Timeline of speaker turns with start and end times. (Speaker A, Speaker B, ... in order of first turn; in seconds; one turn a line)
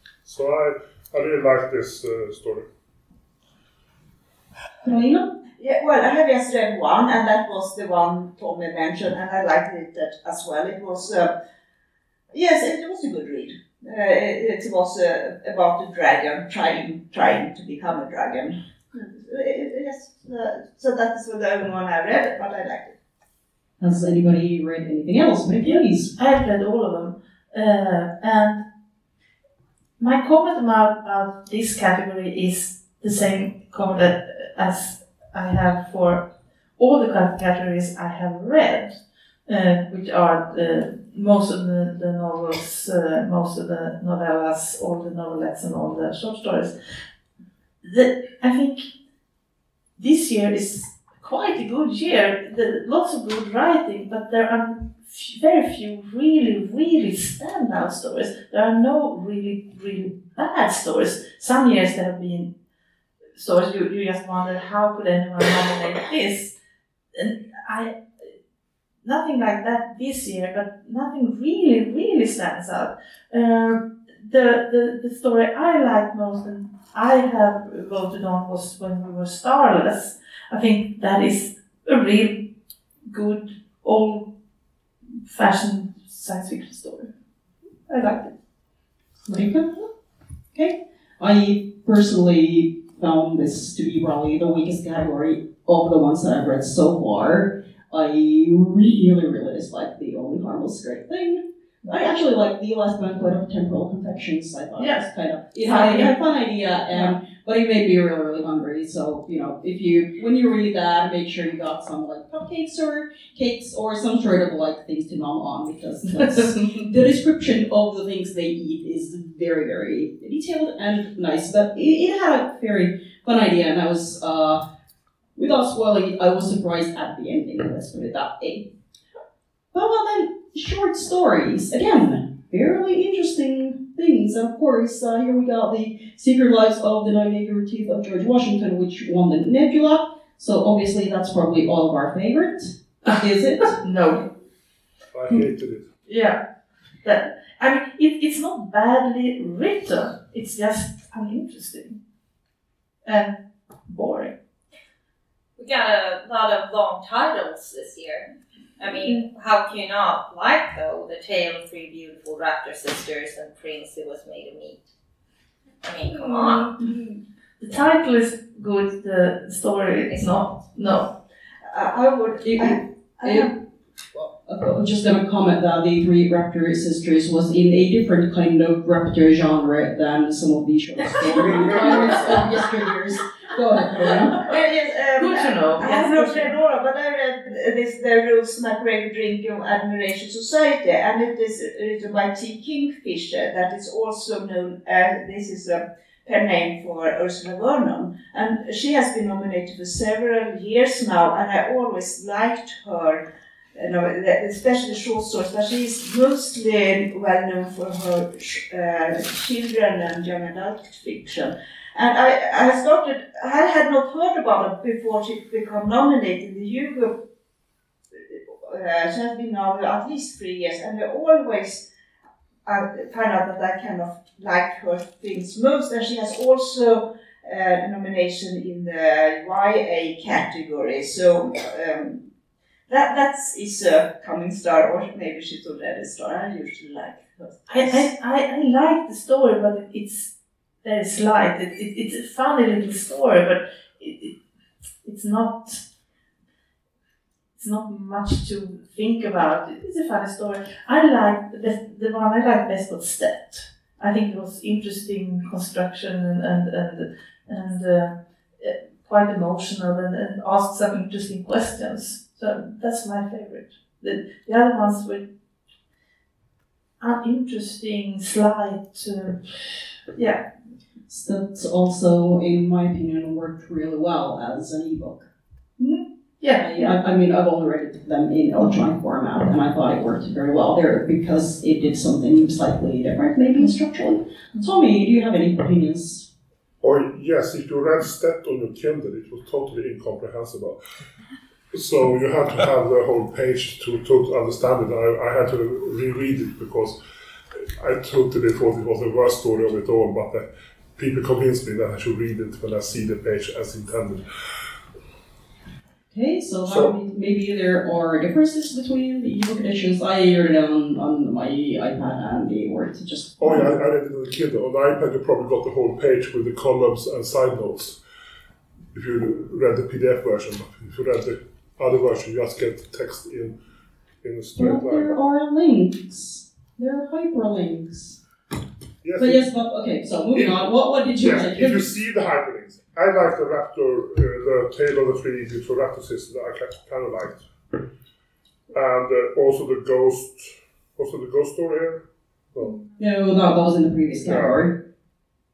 Speaker A: 0.2-2.7
Speaker B: 4.8-5.2
Speaker C: 5.6-11.3
Speaker C: 12.3-22.9
Speaker B: 23.8-26.1
Speaker D: 25.7-28.6
Speaker D: 30.0-36.2
Speaker D: 36.8-46.7
Speaker D: 47.8-48.9
Speaker D: 50.0-62.5
Speaker D: 63.4-66.5
Speaker D: 67.1-68.0
Speaker D: 69.0-82.5
Speaker D: 83.1-84.3
Speaker D: 85.2-87.1
Speaker D: 87.9-88.3
Speaker B: 89.3-89.9
Speaker B: 90.5-124.6
Speaker D: 104.8-105.0
Speaker D: 105.6-106.2
Speaker D: 106.9-107.2
Speaker D: 116.2-116.5
Speaker B: 125.3-128.7
Speaker B: 129.7-143.8
Speaker D: 143.8-144.2
Speaker A: 145.1-145.9
Speaker D: 146.1-146.4
Speaker D: 147.0-152.0
Speaker D: 153.0-154.3
Speaker E: 155.6-164.8
Speaker E: 165.8-166.7
Speaker D: 166.5-167.0
Speaker D: 167.6-171.1
Speaker E: 170.1-170.4
Speaker C: 171.7-173.5
Speaker B: 172.4-173.6
Speaker B: 174.1-184.5
Speaker A: 181.2-182.4
Speaker C: 184.3-203.2
Speaker D: 185.2-186.5
Speaker C: 203.7-217.2
Speaker C: 218.2-221.8
Speaker C: 222.7-232.2
Speaker C: 232.9-238.1
Speaker D: 237.7-240.3
Speaker D: 240.8-244.3
Speaker D: 245.0-245.8
Speaker D: 247.6-265.3
Speaker D: 267.0-270.4
Speaker B: 271.1-275.3
Speaker D: 275.8-276.9
Speaker B: 276.6-286.3
Speaker A: 286.8-290.8
Speaker A: 291.7-297.0
Speaker A: 297.8-304.2
Speaker B: 306.1-313.7
Speaker A: 306.6-306.9
Speaker A: 313.4-318.0
Speaker A: 318.9-323.6
Speaker A: 324.2-325.1
Speaker B: 324.6-328.2
Speaker A: 329.0-329.4
Speaker B: 329.2-332.0
Speaker A: 331.2-337.5
Speaker A: 338.7-342.8
Speaker B: 343.0-344.7
Speaker A: 344.2-344.6